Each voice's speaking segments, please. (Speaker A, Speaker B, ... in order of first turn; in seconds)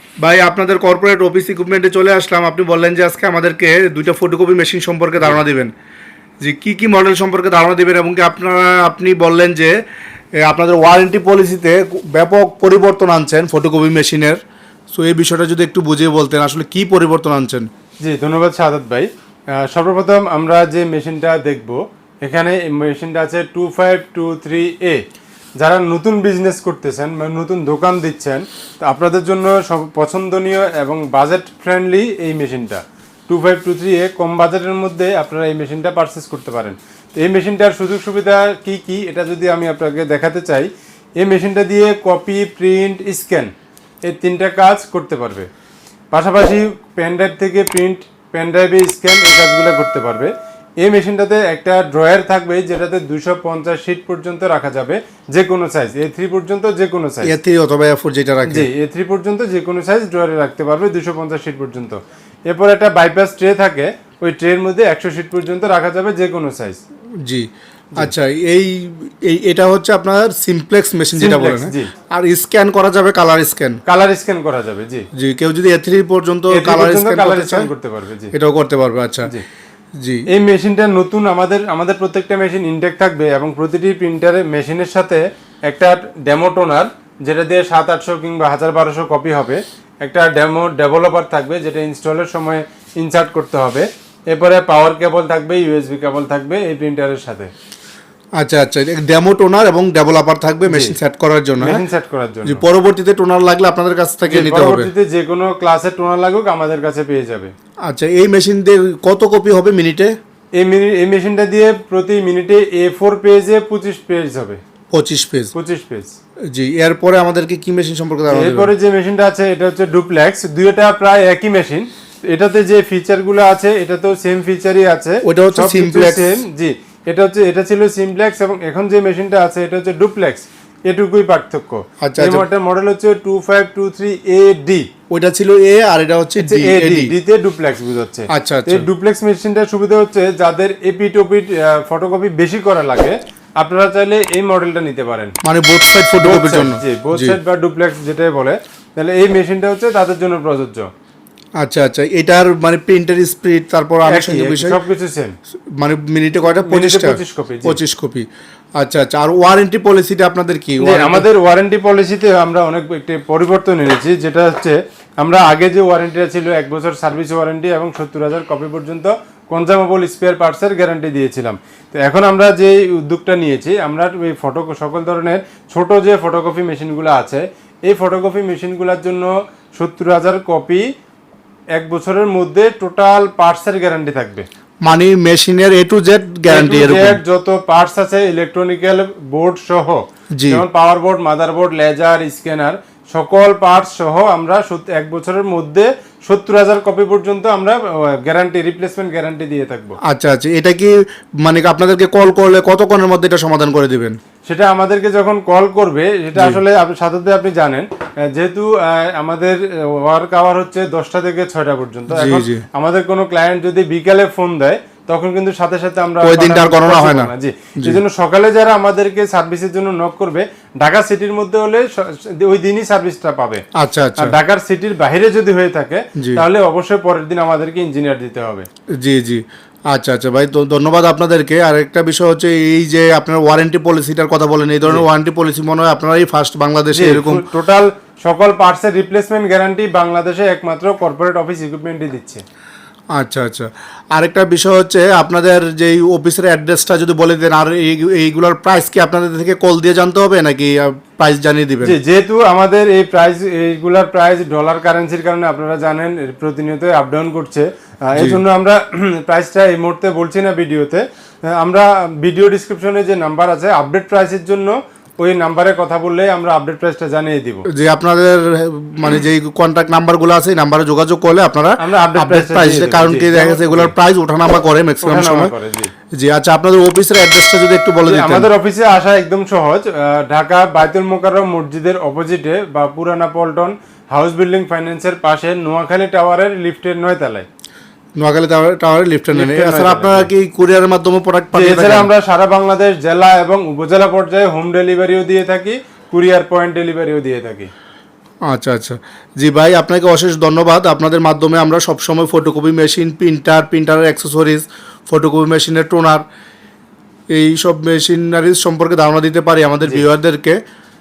Speaker A: 0.2-5.7, 6.4-9.8, 10.4-14.4, 14.9-17.7, 57.2-58.7, 67.2-67.5, 68.0-73.8, 75.2-77.7, 78.3-79.3, 98.4-101.8, 102.5-104.9, 107.9-110.1, 114.9-115.5, 116.5-118.7, 125.2-126.3, 132.0-132.4, 135.1-137.1, 138.3-138.8, 145.4-147.4, 151.6-154.8, 155.8-158.3, 158.8-161.2, 184.8-187.2, 190.4-190.6, 200.1-200.9, 201.5-204.2, 212.1-212.6, 216.2-218.0, 223.8-224.3, 229.0-237.4, 243.2-252.0, 258.2-258.4, 267.7-275.5, 276.2-278.5, 288.2-292.1, 298.5-306.2, 307.3-310.6
Speaker B: 18.0-25.0, 25.6-43.5, 44.1-45.5, 46.1-57.3, 58.5-66.8, 71.2-71.9, 73.9-75.0, 76.5-78.3, 80.3-97.5, 100.7-101.0, 101.6-102.6, 104.3-107.5, 110.6-114.6, 115.5-116.2, 118.3-134.9, 136.4-145.3, 146.2-150.9, 154.1-155.4, 156.7-157.8, 160.8-180.8, 181.8-184.5, 186.5-200.0, 204.5-223.6, 224.2-228.7, 236.9-242.4, 251.8-267.7, 271.8-273.9, 275.0-275.9, 278.0-287.5, 289.3-290.3, 291.5-297.7